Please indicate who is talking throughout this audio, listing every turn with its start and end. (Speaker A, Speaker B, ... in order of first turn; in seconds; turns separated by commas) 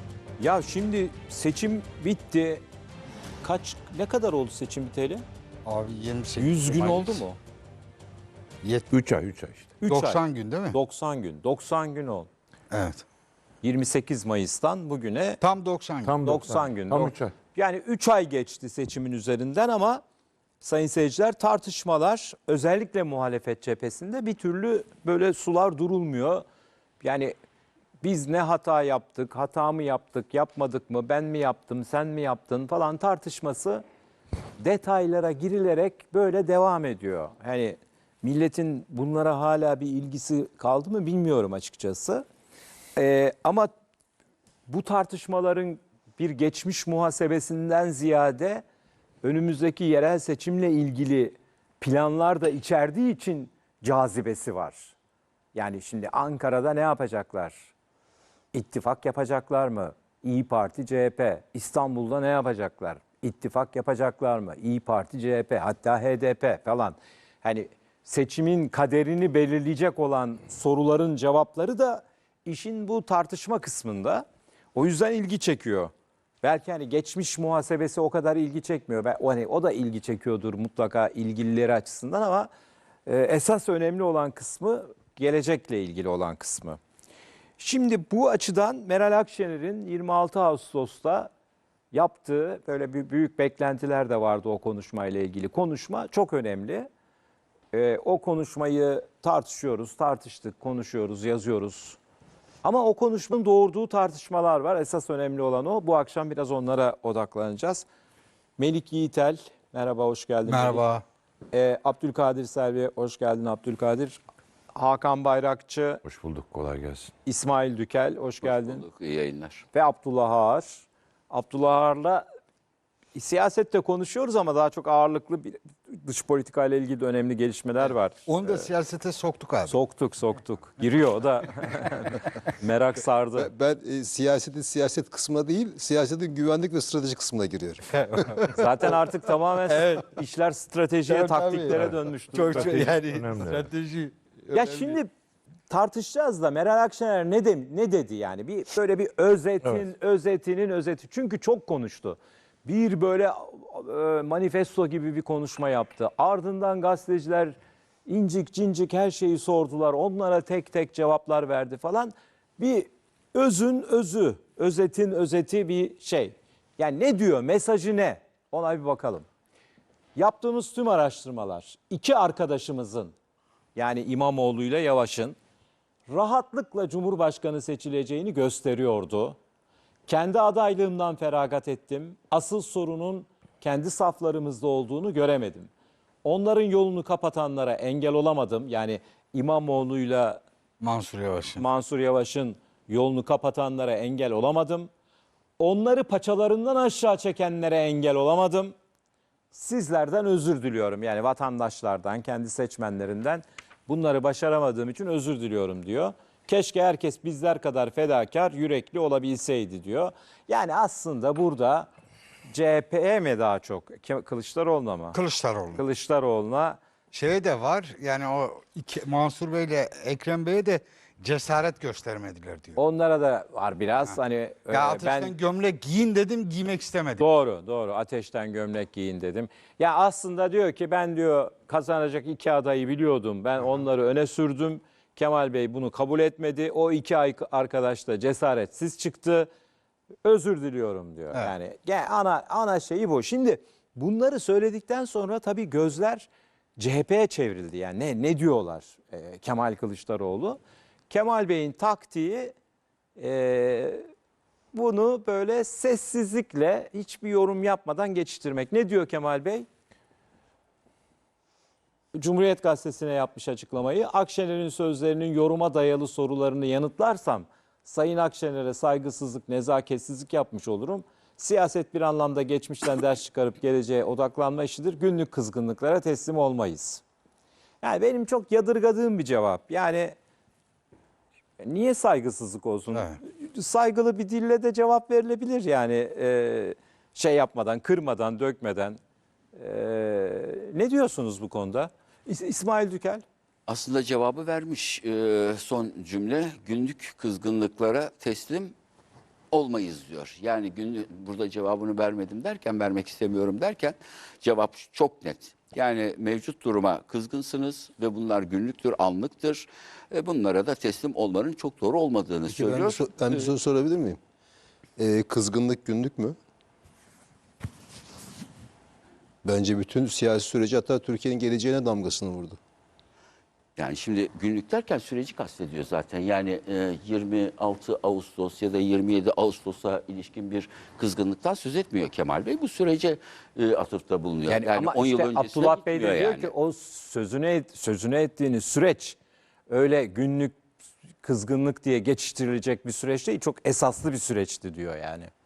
Speaker A: 0.4-2.6, Speaker A: 3.4-5.2, Speaker B: 5.7-7.2, Speaker A: 6.4-7.4, Speaker B: 8.6-8.9, Speaker C: 8.9-9.7, Speaker A: 9.8-10.2, Speaker B: 9.9-10.8, Speaker A: 10.7-12.3, Speaker B: 12.7-13.0, Speaker A: 13.6-15.4, Speaker B: 15.4-16.1, Speaker C: 16.0-17.3, Speaker A: 16.2-20.0, Speaker A: 20.6-26.4, Speaker A: 27.0-27.3, Speaker A: 28.0-33.8, Speaker A: 34.6-42.2, Speaker A: 43.0-43.7, Speaker A: 44.7-48.6, Speaker A: 49.2-54.9, Speaker A: 55.5-57.7, Speaker A: 58.5-75.9, Speaker A: 76.4-82.5, Speaker A: 83.0-86.8, Speaker A: 87.6-91.3, Speaker A: 91.9-96.9, Speaker A: 97.7-102.0, Speaker A: 102.6-107.8, Speaker A: 108.6-110.8, Speaker B: 110.5-111.0, Speaker A: 111.5-114.2, Speaker A: 114.7-116.0, Speaker C: 116.0-117.1, Speaker A: 117.2-118.8, Speaker D: 118.4-119.6, Speaker A: 119.7-122.2, Speaker A: 123.1-128.7, Speaker B: 128.2-129.8, Speaker A: 129.7-133.5, Speaker E: 133.3-138.4, Speaker A: 138.5-142.8, Speaker B: 139.7-140.0, Speaker B: 141.1-145.0, Speaker C: 142.5-143.7, Speaker A: 144.5-145.1, Speaker A: 145.7-157.6, Speaker A: 158.1-169.2, Speaker A: 170.2-173.1, Speaker A: 173.7-175.3, Speaker A: 176.1-179.3, Speaker A: 180.1-185.7, Speaker A: 186.2-190.4, Speaker B: 190.8-191.6, Speaker A: 191.6-194.9, Speaker A: 195.6-198.7, Speaker A: 199.5-211.9, Speaker A: 212.5-215.2, Speaker B: 215.1-215.8, Speaker A: 215.7-216.8, Speaker B: 217.1-222.8, Speaker A: 222.8-225.3, Speaker B: 224.7-227.2, Speaker A: 227.2-239.5, Speaker A: 240.2-250.6, Speaker A: 251.1-252.5, Speaker A: 253.2-254.0, Speaker A: 254.7-259.7, Speaker A: 262.1-277.0, Speaker A: 277.8-280.1, Speaker A: 281.6-289.0, Speaker A: 289.5-293.2, Speaker D: 293.7-298.7, Speaker D: 299.5-313.5, Speaker E: 312.5-314.2, Speaker E: 315.0-316.4, Speaker E: 319.4-322.6, Speaker D: 323.8-336.5, Speaker A: 334.5-339.2, Speaker A: 339.7-340.6, Speaker A: 341.2-345.3